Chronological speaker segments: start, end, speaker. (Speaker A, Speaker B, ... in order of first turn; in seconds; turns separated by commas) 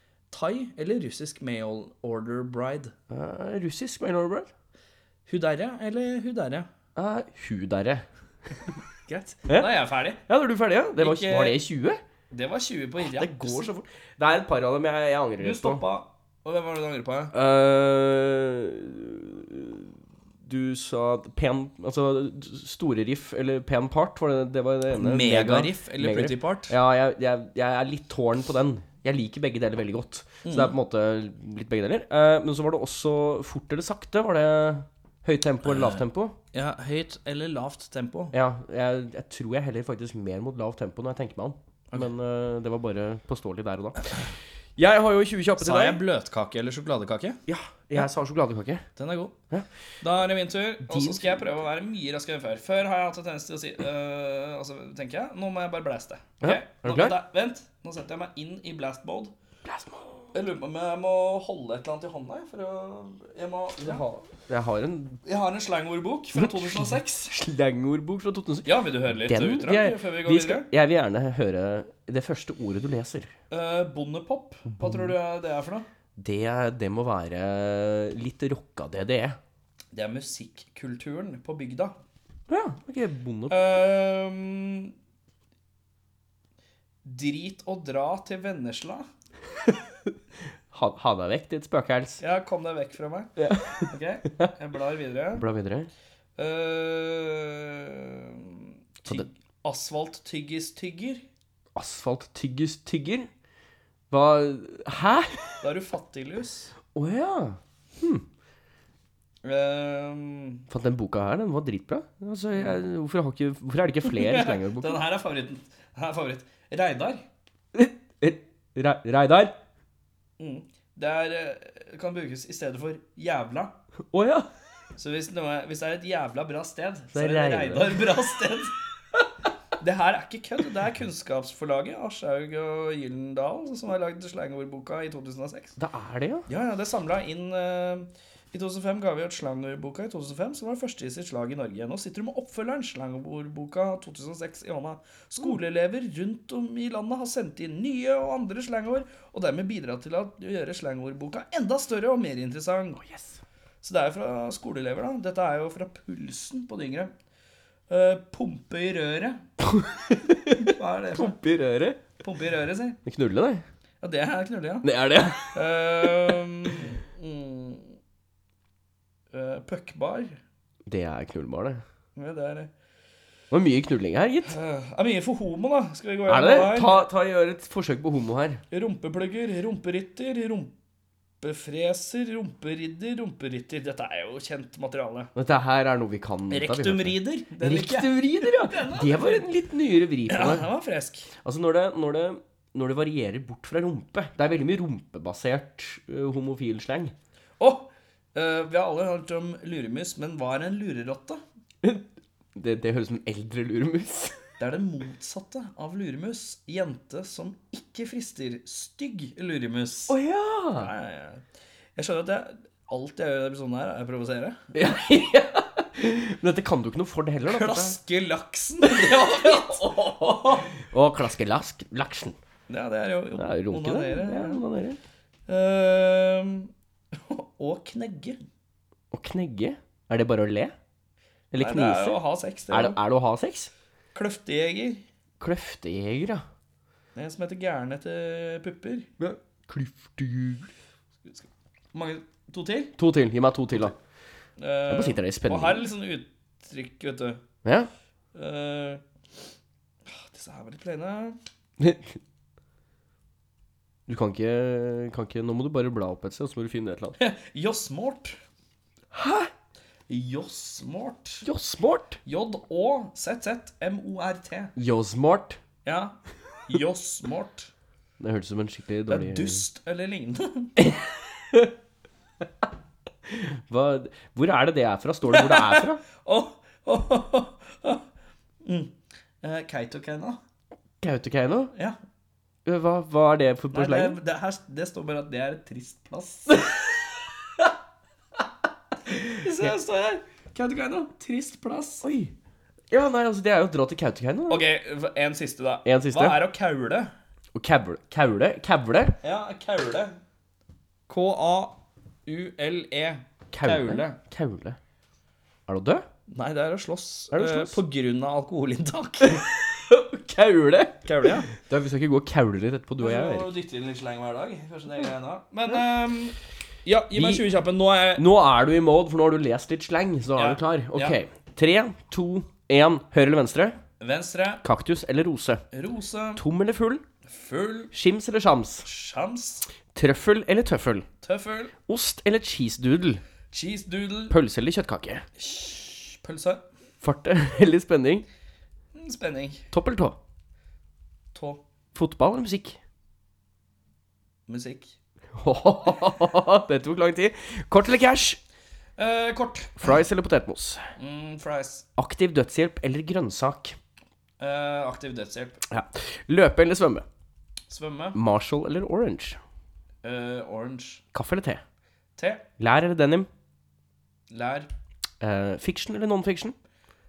Speaker A: 0.3-2.9, Speaker B: 3.1-4.5, Speaker A: 5.3-6.7, Speaker B: 7.0-8.1, Speaker A: 9.1-10.2, Speaker B: 9.5-12.0, Speaker A: 11.0-11.6, Speaker A: 12.3-13.7, Speaker B: 13.0-15.8, Speaker A: 15.4-17.3, Speaker B: 17.3-36.4, Speaker A: 25.0-26.8, Speaker A: 30.4-30.7, Speaker A: 35.6-38.4, Speaker B: 38.3-46.0, Speaker A: 45.6-47.4, Speaker B: 47.5-48.8, Speaker A: 49.0-49.4, Speaker A: 50.0-59.3, Speaker B: 50.9-51.5, Speaker B: 56.4-57.2, Speaker B: 59.6-60.2, Speaker A: 60.3-64.1, Speaker B: 63.8-65.2, Speaker A: 65.2-67.3, Speaker B: 66.3-73.3, Speaker A: 68.7-70.7, Speaker A: 73.5-75.9, Speaker B: 74.7-75.2, Speaker B: 76.2-79.4, Speaker A: 79.9-82.0, Speaker B: 82.5-83.7, Speaker A: 83.5-84.9, Speaker A: 87.0-89.1, Speaker B: 90.7-92.2, Speaker A: 92.2-93.3, Speaker B: 93.4-94.5, Speaker A: 93.9-95.4, Speaker B: 95.3-95.9, Speaker A: 96.4-101.2, Speaker B: 101.8-103.3, Speaker B: 104.1-105.7, Speaker A: 105.6-106.7, Speaker B: 106.9-108.3, Speaker A: 109.4-110.6, Speaker B: 110.7-115.0, Speaker A: 114.1-117.2, Speaker B: 117.7-119.6, Speaker A: 120.4-123.7, Speaker B: 124.1-124.5, Speaker A: 125.0-128.7, Speaker B: 127.1-128.2, Speaker A: 129.8-135.8, Speaker B: 135.8-136.5, Speaker A: 136.5-153.0, Speaker B: 153.0-153.4, Speaker A: 153.8-157.1, Speaker A: 157.9-159.4, Speaker B: 159.6-162.0, Speaker A: 160.6-161.4, Speaker A: 162.2-163.0, Speaker B: 163.1-163.7, Speaker A: 164.0-164.9, Speaker B: 164.8-166.4, Speaker A: 165.5-168.0, Speaker A: 169.3-170.4, Speaker B: 170.9-171.8, Speaker A: 172.2-172.7, Speaker B: 173.5-174.6, Speaker A: 174.5-177.1, Speaker B: 176.3-178.6, Speaker A: 178.7-180.7, Speaker A: 181.4-185.3, Speaker B: 185.3-190.7, Speaker A: 186.5-189.5, Speaker A: 190.3-191.3, Speaker B: 191.4-197.1, Speaker A: 197.6-201.4, Speaker B: 201.8-204.4, Speaker A: 204.6-210.2, Speaker B: 210.1-210.9, Speaker A: 210.7-211.4, Speaker A: 212.0-214.7, Speaker B: 214.7-218.0, Speaker A: 217.5-220.7, Speaker B: 218.8-222.4, Speaker A: 222.7-224.6, Speaker B: 223.4-225.0, Speaker A: 225.5-228.4, Speaker B: 229.1-230.8, Speaker B: 231.5-233.7, Speaker A: 231.6-233.0, Speaker A: 234.1-235.0, Speaker B: 235.4-236.4, Speaker A: 237.2-239.1, Speaker B: 239.2-240.7, Speaker A: 241.2-242.9, Speaker B: 243.0-244.0, Speaker A: 244.6-247.4, Speaker B: 244.9-245.9, Speaker B: 247.6-247.9, Speaker A: 248.3-249.0, Speaker A: 250.1-251.4, Speaker B: 251.8-252.2, Speaker B: 254.1-257.2, Speaker A: 257.2-258.4, Speaker B: 259.1-259.5, Speaker A: 260.1-261.4, Speaker B: 261.4-262.2, Speaker A: 262.2-264.7, Speaker B: 264.8-265.6, Speaker A: 265.9-267.7, Speaker B: 268.2-269.6, Speaker A: 269.1-270.7, Speaker B: 270.8-271.7, Speaker B: 273.3-276.0, Speaker A: 275.3-278.0, Speaker A: 278.6-280.4, Speaker B: 281.0-281.7, Speaker B: 282.6-284.2, Speaker A: 283.7-286.9, Speaker A: 289.1-292.1, Speaker B: 292.0-292.3, Speaker B: 292.9-294.7, Speaker A: 294.5-297.1, Speaker B: 295.9-296.4, Speaker B: 297.5-299.2, Speaker A: 299.2-300.2, Speaker A: 301.1-304.2, Speaker B: 303.5-304.8, Speaker B: 305.7-306.1, Speaker A: 306.3-309.4, Speaker B: 307.3-307.8, Speaker B: 309.2-313.5, Speaker A: 311.1-311.5, Speaker A: 313.0-318.2, Speaker B: 317.1-317.5, Speaker B: 318.2-323.8, Speaker A: 320.4-321.2, Speaker A: 324.0-324.6, Speaker B: 324.6-325.6, Speaker A: 325.7-326.4, Speaker B: 326.4-327.0, Speaker A: 327.3-327.9, Speaker B: 327.9-328.9, Speaker A: 328.8-329.7, Speaker B: 329.9-331.1, Speaker A: 331.2-331.7, Speaker B: 331.9-333.2, Speaker A: 333.5-334.4, Speaker B: 334.3-335.2, Speaker A: 335.4-336.6, Speaker B: 337.0-338.3, Speaker A: 338.9-339.7, Speaker B: 339.7-340.2, Speaker A: 341.3-341.6, Speaker B: 341.9-342.8, Speaker A: 344.5-344.9, Speaker B: 345.4-348.4, Speaker A: 349.0-349.9, Speaker B: 349.8-350.9, Speaker A: 351.0-351.9, Speaker B: 352.0-353.8, Speaker A: 354.4-355.6, Speaker B: 355.7-357.1, Speaker A: 357.7-358.2, Speaker B: 358.1-359.4, Speaker A: 360.0-361.0, Speaker B: 361.1-361.6, Speaker A: 362.2-362.4, Speaker B: 362.6-363.3, Speaker A: 364.3-364.7, Speaker B: 365.2-366.6